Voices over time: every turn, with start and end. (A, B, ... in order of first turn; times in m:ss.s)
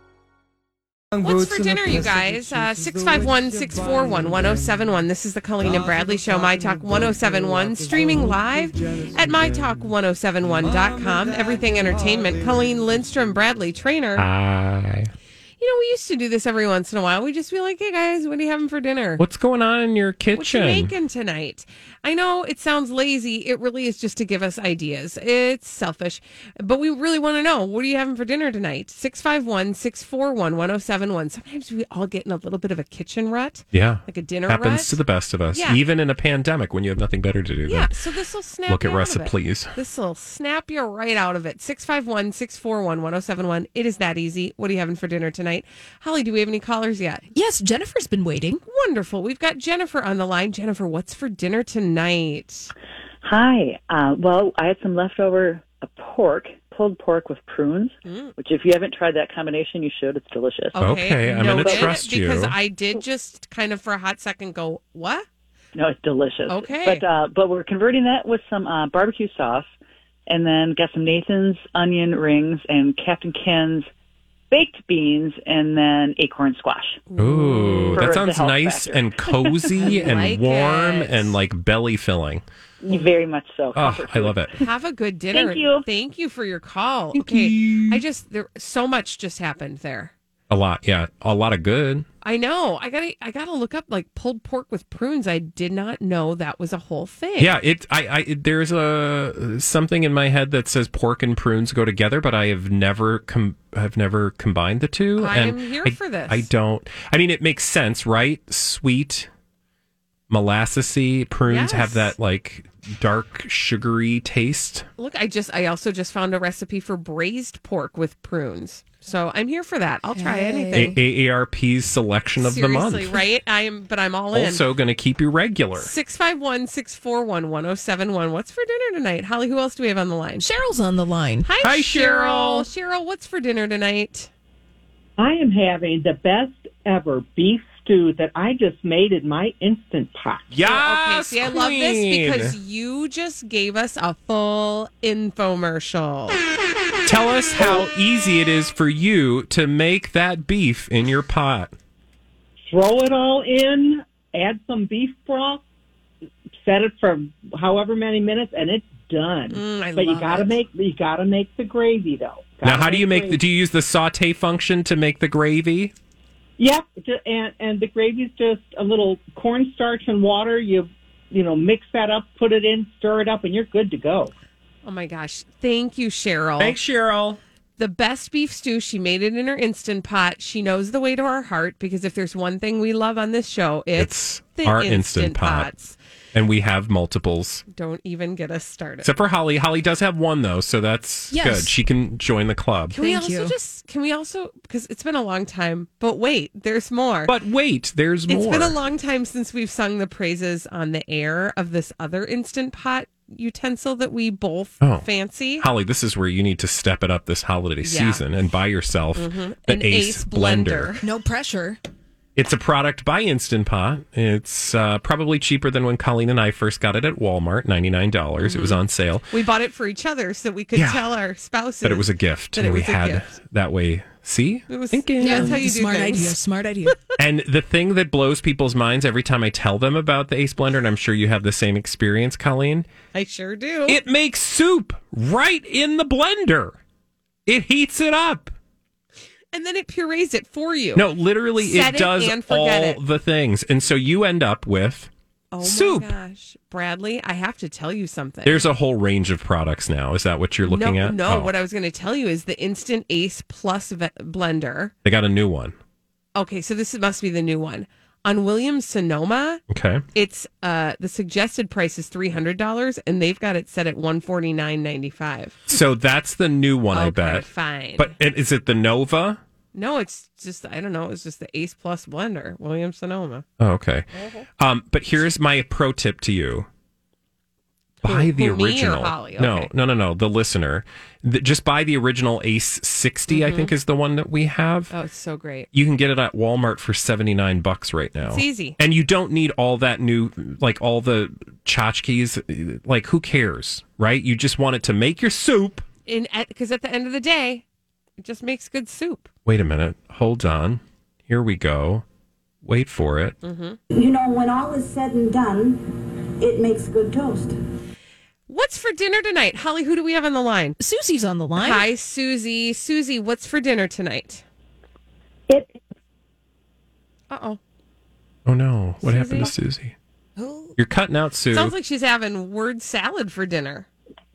0:01.2-0:14.2 A
0:14.2-0:15.1 B
0:15.6-0:19.2 A
0:19.2-0:20.9 B
0:20.4-0:35.0 A
0:33.7-0:37.9 B
0:35.5-0:35.8 A
0:37.7-0:47.2 A
0:38.7-0:39.7 B
0:47.3-0:48.6 C
0:48.7-0:52.7 A
0:53.2-1:00.8 D
0:58.0-0:58.3 A
1:00.7-1:05.2 A
1:00.8-1:02.5 B
1:01.4-1:02.0 D
1:05.7-1:09.7 D
1:06.5-1:07.0 A
1:10.3-1:13.9 D
1:14.5-1:17.0 D
1:17.1-1:18.2 A
1:17.2-1:22.4 B
1:17.9-1:20.2 D
1:19.8-1:21.3 A
1:22.8-1:24.4 D
1:23.7-1:24.5 B
1:24.6-1:30.1 A
1:25.3-1:25.8 D
1:27.1-1:28.0 B
1:30.5-1:32.0 B
1:32.2-1:37.6 A
1:37.4-1:49.3 B
1:45.2-1:46.5 A
1:50.3-1:54.9 B
1:51.5-1:52.1 A
1:55.0-2:01.0 A
2:00.1-2:00.9 C
2:00.7-2:03.2 B
2:02.4-2:04.6 A
2:04.3-2:05.9 B
2:05.8-2:10.4 A
2:10.4-2:11.5 C
2:11.4-2:14.3 A
2:11.6-2:12.7 B
2:15.2-2:20.5 E
2:20.5-2:22.6 B
2:20.6-2:26.4 A
2:27.0-2:31.7 B
2:32.7-2:35.6 E
2:36.6-2:43.4 E
2:39.5-2:40.6 A
2:42.6-2:45.9 B
2:46.6-2:54.3 E
2:54.8-2:56.8 A
2:56.6-2:57.4 B
2:57.8-3:06.0 A
3:04.0-3:05.7 B
3:06.3-3:07.6 B
3:07.7-3:09.1 A
3:09.0-3:12.9 B
3:11.3-3:11.7 C
3:12.9-3:17.3 A
3:13.0-3:13.5 C
3:17.3-3:18.8 B
3:18.3-3:25.7 A
3:24.8-3:25.1 B
3:25.6-3:30.9 B
3:27.8-3:28.2 A
3:29.1-3:31.0 A
3:31.0-3:31.8 C
3:32.4-3:39.3 B
3:38.4-3:38.8 A
3:39.3-3:43.3 A
3:40.7-3:41.0 B
3:41.8-3:45.6 B
3:44.7-3:46.4 A
3:45.2-3:47.0 C
3:47.2-3:52.9 B
3:53.1-3:54.0 A
3:53.9-3:56.8 B
3:57.4-3:58.5 B
3:59.5-4:01.0 A
4:01.0-4:05.1 B
4:01.6-4:03.0 A
4:05.5-4:08.7 A
4:05.6-4:06.1 B
4:08.4-4:11.5 B
4:10.6-4:14.9 A
4:15.0-4:15.8 B
4:16.3-4:19.6 A
4:19.7-4:20.0 B
4:20.1-4:25.6 A
4:25.7-4:29.4 B
4:26.9-4:28.1 A
4:29.7-4:33.4 A
4:33.6-4:34.1 B
4:34.6-4:36.7 B
4:38.0-4:39.7 A
4:38.0-4:44.9 B
4:43.3-4:43.7 A
4:44.9-4:45.7 A
4:45.7-4:55.8 B
4:48.2-4:48.8 A
4:56.0-4:57.6 A
4:58.2-4:59.3 A
4:59.4-5:02.0 B
5:02.6-5:03.4 B
5:03.4-5:03.8 A
5:03.9-5:07.6 F
5:08.5-5:10.8 A
5:10.8-5:11.9 C
5:11.6-5:14.4 A
5:17.3-5:17.6 A
5:18.4-5:19.9 B
5:19.0-5:19.5 A
5:20.4-5:20.7 C
5:20.8-5:21.8 B
5:21.5-5:23.9 A